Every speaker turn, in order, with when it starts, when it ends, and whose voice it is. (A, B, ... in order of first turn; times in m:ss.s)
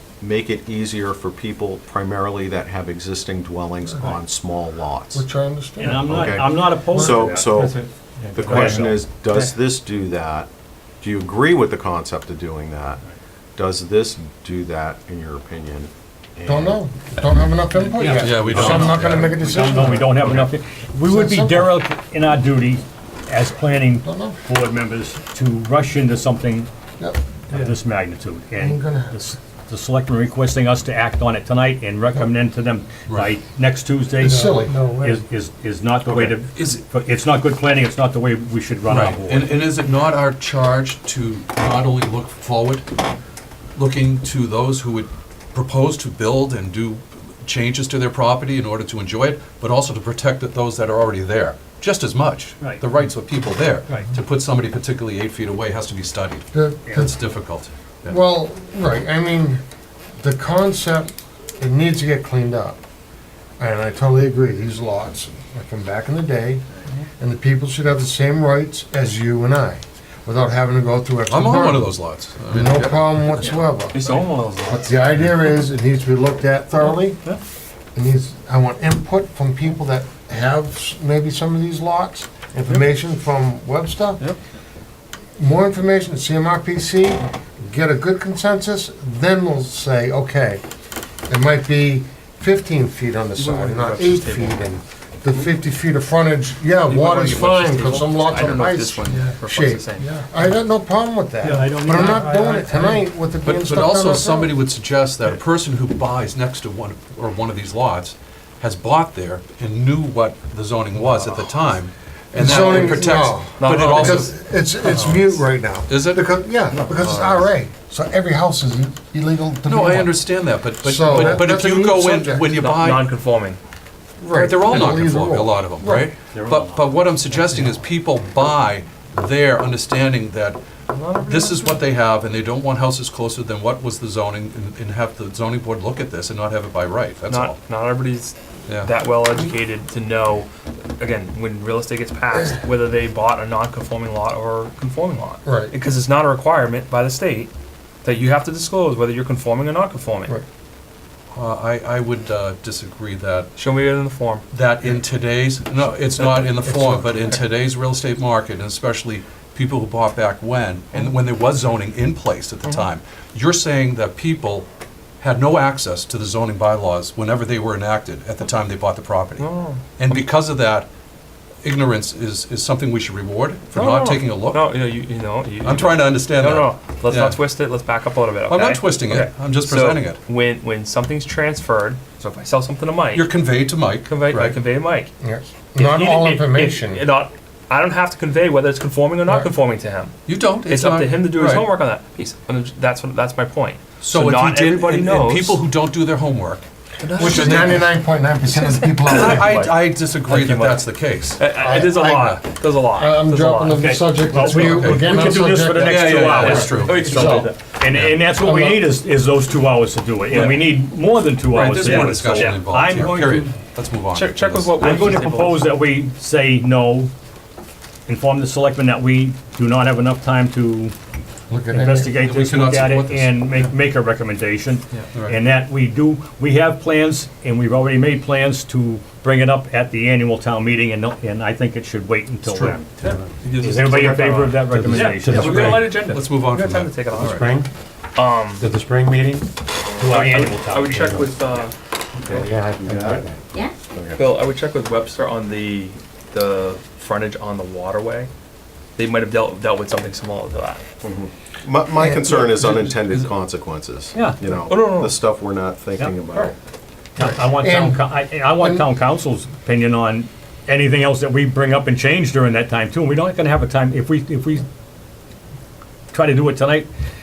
0:00.2-0:05.2 A
0:03.8-0:04.2 B
0:05.1-0:06.4 B
0:05.8-0:07.5 C
0:06.0-0:07.8 A
0:06.9-0:07.2 B
0:07.4-0:09.4 D
0:08.3-0:10.5 A
0:08.4-0:08.9 C
0:11.0-0:13.0 A
0:13.6-0:16.8 A
0:16.4-0:20.4 B
0:18.0-0:26.7 C
0:18.1-0:19.3 E
0:21.0-0:21.8 B
0:24.0-0:24.4 B
0:27.5-0:39.5 C
0:28.6-0:29.2 B
0:34.2-0:34.9 B
0:34.3-0:35.2 D
0:36.1-0:36.8 E
0:38.9-0:42.8 E
0:43.8-0:58.2 E
0:52.6-0:52.8 C
0:56.5-0:57.2 B
0:56.8-0:57.1 C
0:58.1-0:59.6 B
1:00.2-1:02.8 B
1:03.6-1:06.6 B
1:07.2-1:11.9 B
1:11.3-1:13.6 E
1:12.5-1:17.2 B
1:13.5-1:15.3 F
1:17.9-1:24.3 B
1:25.4-1:30.6 B
1:31.3-1:44.6 B
1:33.4-1:34.8 F
1:36.8-1:40.1 F
1:41.4-1:43.0 D
1:41.4-1:42.6 C
1:43.4-1:56.2 E
1:52.3-2:00.2 B
1:53.6-1:54.3 F
1:57.0-1:57.3 E
1:59.6-2:03.1 E
2:00.8-2:02.5 B
2:02.6-2:03.6 F
2:04.2-2:06.1 B
2:04.3-2:10.6 E
2:06.3-2:07.7 C
2:10.9-2:11.8 F
2:11.2-2:17.6 E
2:17.3-2:27.5 F
2:25.4-2:25.7 B
2:28.0-2:30.3 F
2:31.3-2:33.5 E
2:33.5-2:34.4 F
2:34.5-2:44.7 E
2:36.2-2:37.4 F
2:45.2-2:49.4 E
2:49.4-2:49.8 F
2:50.0-2:50.9 E
2:51.6-2:54.7 E
2:53.7-3:03.3 F
2:55.6-2:57.4 E
2:58.5-3:00.2 E
3:03.1-3:04.6 E
3:04.0-3:05.1 F
3:05.2-3:07.0 B
3:05.8-3:10.1 F
3:10.2-3:11.7 E
3:10.6-3:15.6 F
3:14.0-3:16.6 E
3:17.0-3:17.8 F
3:17.2-3:19.7 B
3:17.2-3:17.8 E
3:18.6-3:24.8 F
3:19.0-3:21.5 E
3:21.6-3:22.4 B
3:22.1-3:22.4 E
3:22.9-3:27.5 B
3:23.7-3:33.5 C
3:24.6-3:25.0 E
3:25.8-3:28.2 E
3:26.3-3:27.6 F
3:28.3-3:28.9 B
3:30.3-3:30.8 F
3:31.5-3:34.8 E
3:31.8-3:33.0 F
3:34.1-3:35.8 F
3:34.8-3:37.1 C
3:38.1-3:40.9 C
3:41.5-3:42.1 B
3:41.7-3:52.9 C
3:42.1-3:43.4 E
3:45.1-3:45.4 E
3:52.4-3:53.8 E
3:53.0-3:57.5 F
3:53.6-3:55.9 C
3:54.6-3:55.9 D
3:55.5-3:57.6 E
3:57.1-3:57.7 D
3:58.1-3:58.7 F
3:58.6-3:59.5 D
3:59.9-4:01.7 F
4:00.0-4:01.3 C
4:02.2-4:03.2 D
4:02.8-4:03.2 A
4:03.9-4:04.3 A
4:04.2-4:08.3 F
4:09.0-4:10.8 F
4:11.0-4:16.5 A
4:12.0-4:12.6 B
4:12.8-4:13.3 F
4:14.1-4:14.4 C
4:14.6-4:15.3 F
4:16.0-4:16.5 C
4:17.2-4:24.7 C
4:17.2-4:18.8 B
4:26.1-4:26.9 C